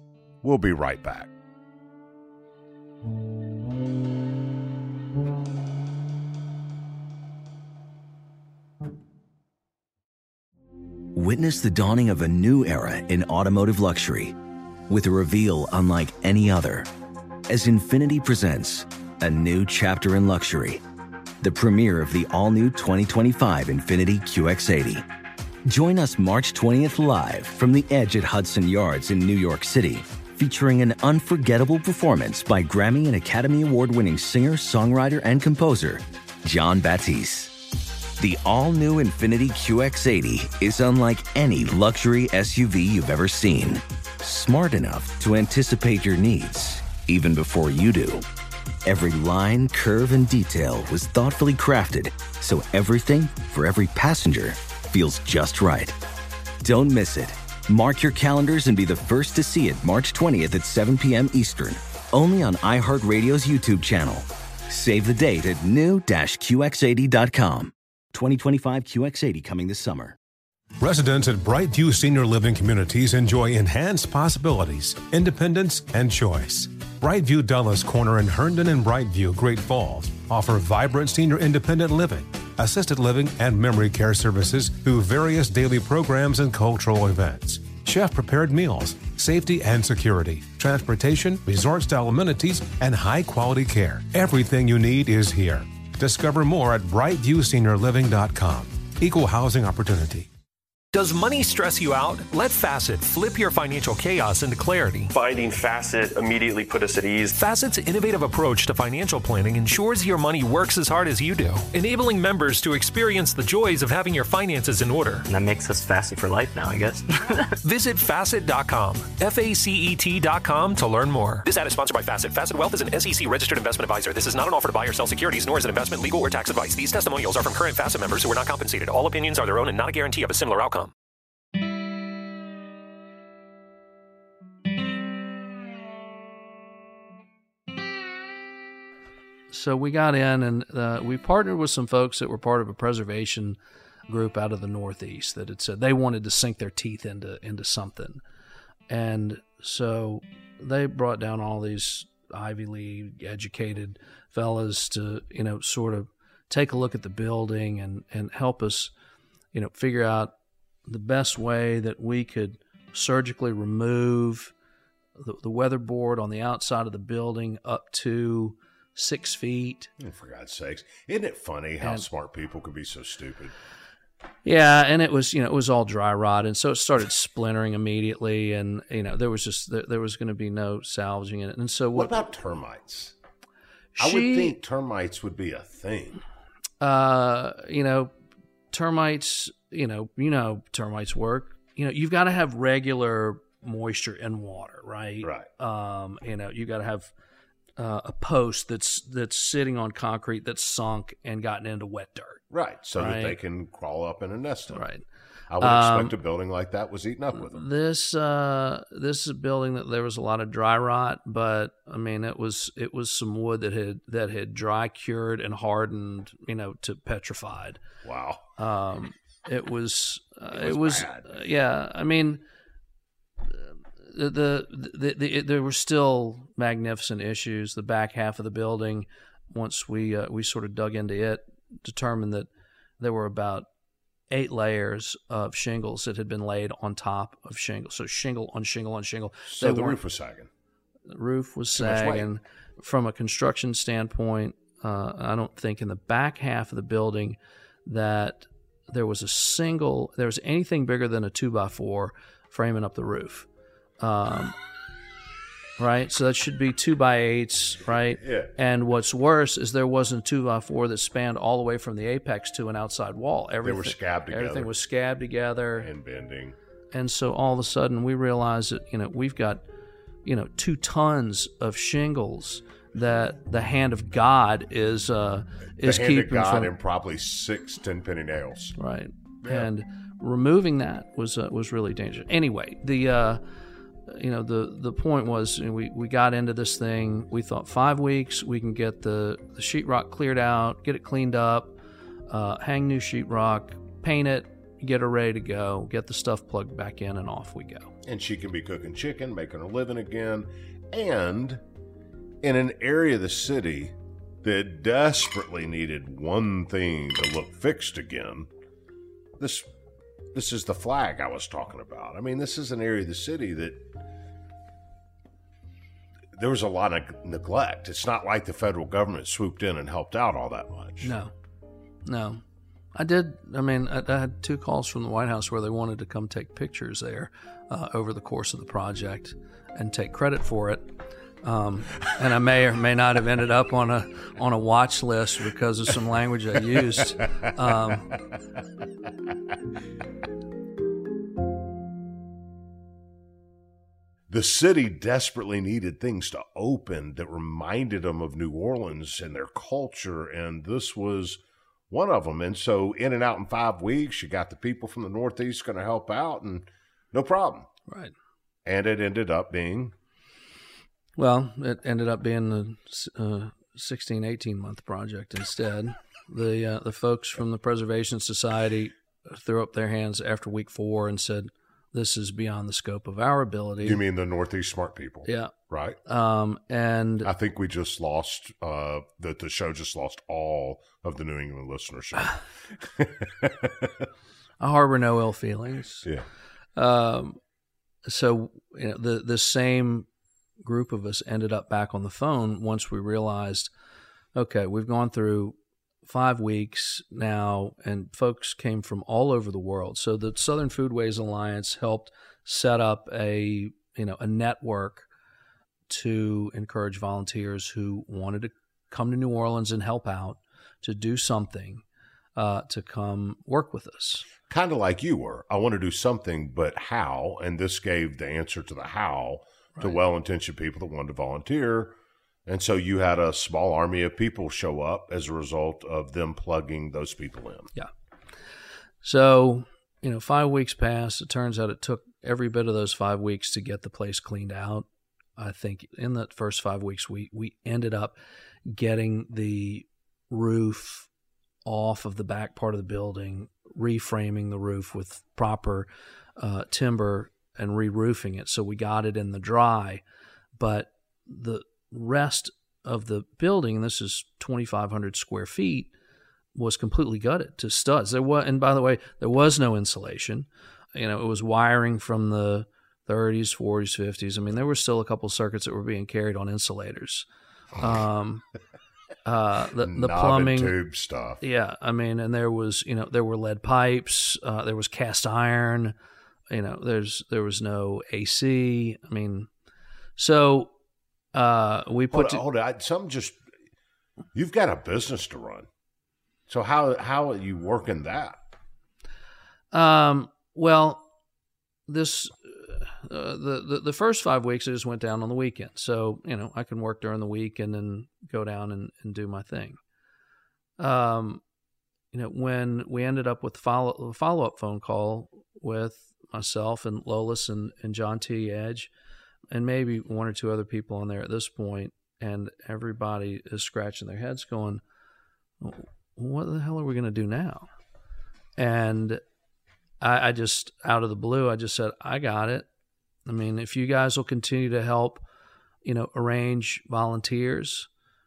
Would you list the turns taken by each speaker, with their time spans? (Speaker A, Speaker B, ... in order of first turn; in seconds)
Speaker A: 0.4-1.3, 170.0-173.5, 181.9-183.1, 184.0-186.2, 195.2-195.5, 202.5-204.8, 205.5-207.6, 218.0-218.4, 220.5-221.4, 239.5-240.5, 241.8-242.3, 258.2-258.5, 263.6-264.7, 265.8-266.6, 275.8-278.8, 298.0-301.6, 302.4-308.5, 309.4-309.7, 310.3-313.9, 316.3-321.1, 344.3-357.7, 358.6-359.9, 373.8-376.0, 377.2-383.9, 414.5-421.9, 422.4-427.7, 469.8-471.4, 482.1-483.4, 484.3-485.7, 486.5-488.4
Speaker B: 11.1-14.4, 14.9-16.9, 17.5-20.8, 21.4-25.0, 25.6-37.6, 38.2-48.2, 48.8-56.0, 56.6-70.2
Speaker C: 70.8-100.3
Speaker D: 100.9-105.1, 107.3-115.2, 117.6-130.9
Speaker E: 105.1-107.3
Speaker F: 115.2-117.5
Speaker G: 139.5-148.2, 148.9-158.9, 159.5-160.3, 160.9-164.5, 165.2-169.9, 171.8-172.1, 174.4-182.2, 183.9-184.6, 186.8-188.1, 188.7-197.1, 197.8-202.4, 203.0-203.4, 204.7-205.0, 205.6-206.2, 207.3-217.8, 218.6-222.4, 223.5-233.7, 234.3-240.0, 241.1-253.5, 254.0-254.6, 255.8-265.9, 266.9-269.6, 270.2-276.7, 278.8-283.4, 284.1-291.8, 292.3-297.9, 321.0-321.3, 322.0-322.4, 322.9-330.9, 331.4-338.2, 357.9-358.1, 361.2-374.0, 375.2-375.5, 376.0-377.3, 384.6-386.1, 386.8-387.4, 388.0-390.1, 390.6-393.7, 394.3-405.1, 405.9-411.8, 412.4-414.3, 429.0-434.9, 435.4-438.1, 438.7-441.1, 441.6-450.0, 450.6-455.9, 456.5-467.2, 467.8-468.4, 469.2-470.7, 471.4-475.9, 476.5-479.5, 480.2-480.7, 481.3-482.4, 489.7-491.1, 491.9-499.8, 500.8-501.4, 502.1-508.9, 509.5-514.8, 515.6-517.7, 518.6-519.2, 520.0-522.6, 523.2-525.2, 525.8-527.9